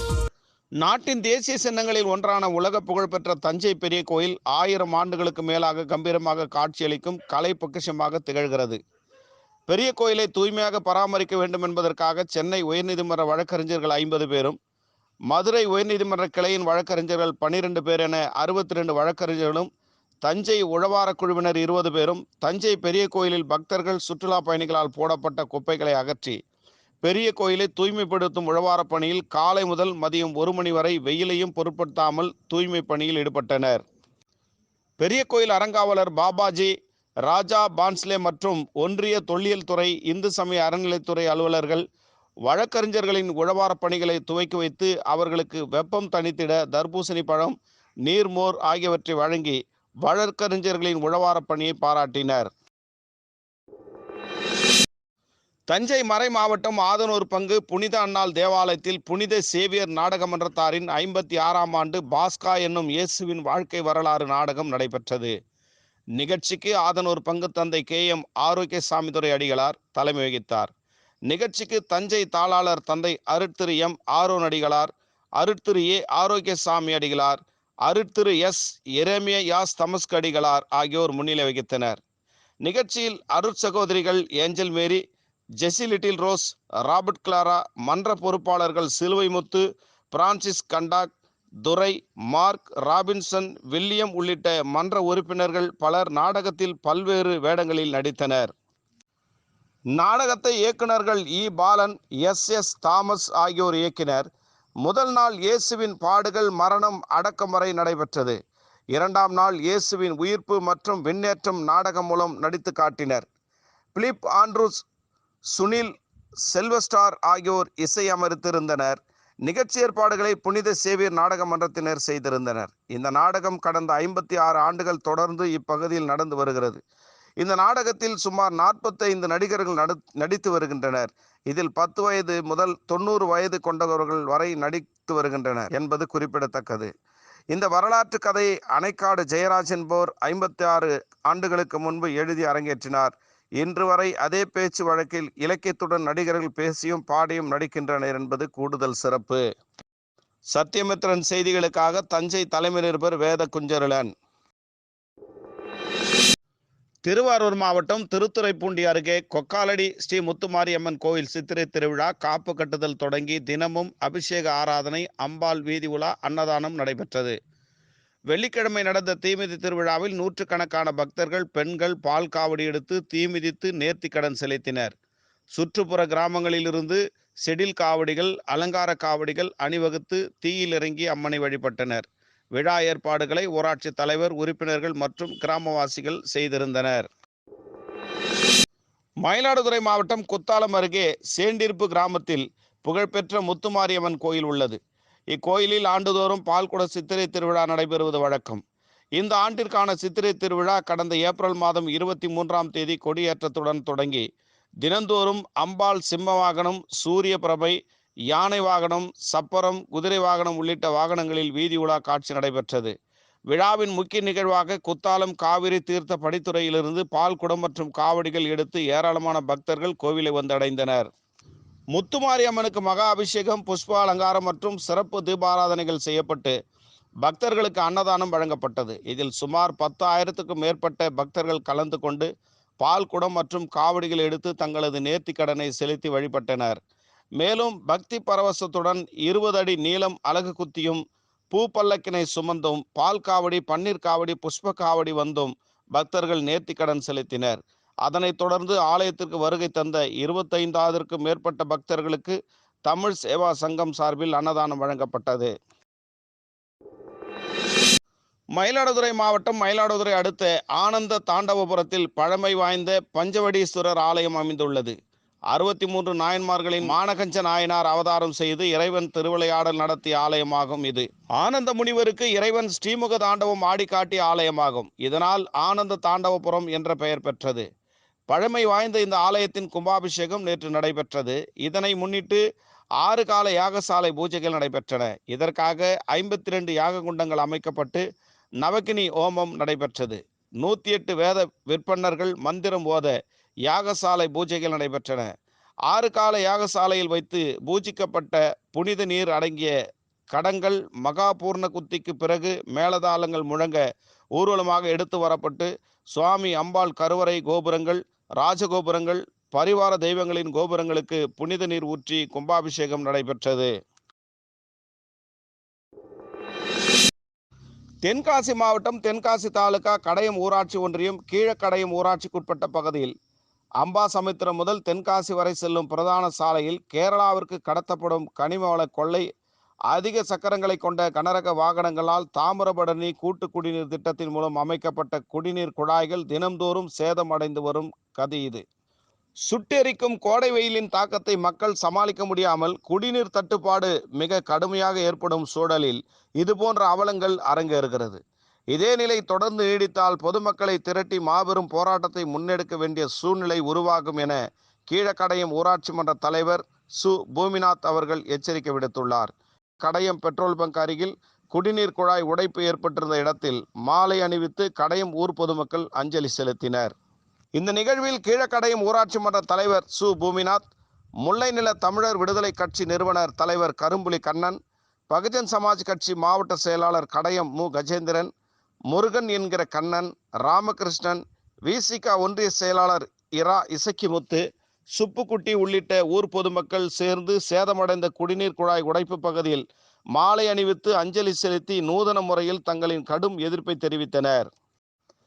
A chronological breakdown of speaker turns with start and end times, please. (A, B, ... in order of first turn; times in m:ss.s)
0:00.8-0:08.8 A
0:09.7-0:14.6 A
0:15.3-0:19.7 A
0:20.2-0:26.4 A
0:27.0-0:33.8 A
0:35.0-0:36.7 A
0:37.3-0:41.8 A
0:42.4-0:52.5 A
0:55.7-1:05.3 A
1:06.2-1:10.7 A
1:11.3-1:22.0 A
1:22.6-1:25.0 A
1:25.6-1:31.1 A
1:31.6-1:38.5 A
1:39.9-1:44.3 A
1:44.8-1:48.4 A
1:48.9-1:53.3 A
1:53.9-1:54.8 A
1:55.5-1:55.9 A
1:56.4-2:06.8 A
2:07.4-2:16.9 A
2:17.5-2:29.4 A
2:30.5-2:34.1 A
2:37.0-2:47.4 A
2:48.3-2:54.9 A
2:55.5-3:07.1 A
3:09.2-3:14.8 A
3:15.3-3:18.6 A
3:19.2-3:24.3 A
3:24.8-3:27.8 A
3:28.3-3:32.9 A
3:33.5-3:41.1 A
3:41.9-3:46.5 A
3:47.2-3:52.3 A
3:52.8-3:56.8 A
3:57.4-4:15.5 A
4:18.6-4:25.0 A
4:25.5-4:37.7 A
4:38.3-4:42.4 A
4:43.0-4:48.0 A
4:48.6-4:53.1 A
4:53.7-4:55.3 A
4:55.9-4:59.7 A
5:00.3-5:03.8 A
5:04.4-5:13.7 A
5:18.0-5:23.1 A
5:23.8-5:29.3 A
5:29.9-5:38.6 A
5:39.5-5:48.2 A
5:48.7-6:06.9 A
6:07.6-6:10.6 A
6:11.2-6:14.6 A
6:15.1-6:18.3 A
6:18.9-6:34.5 A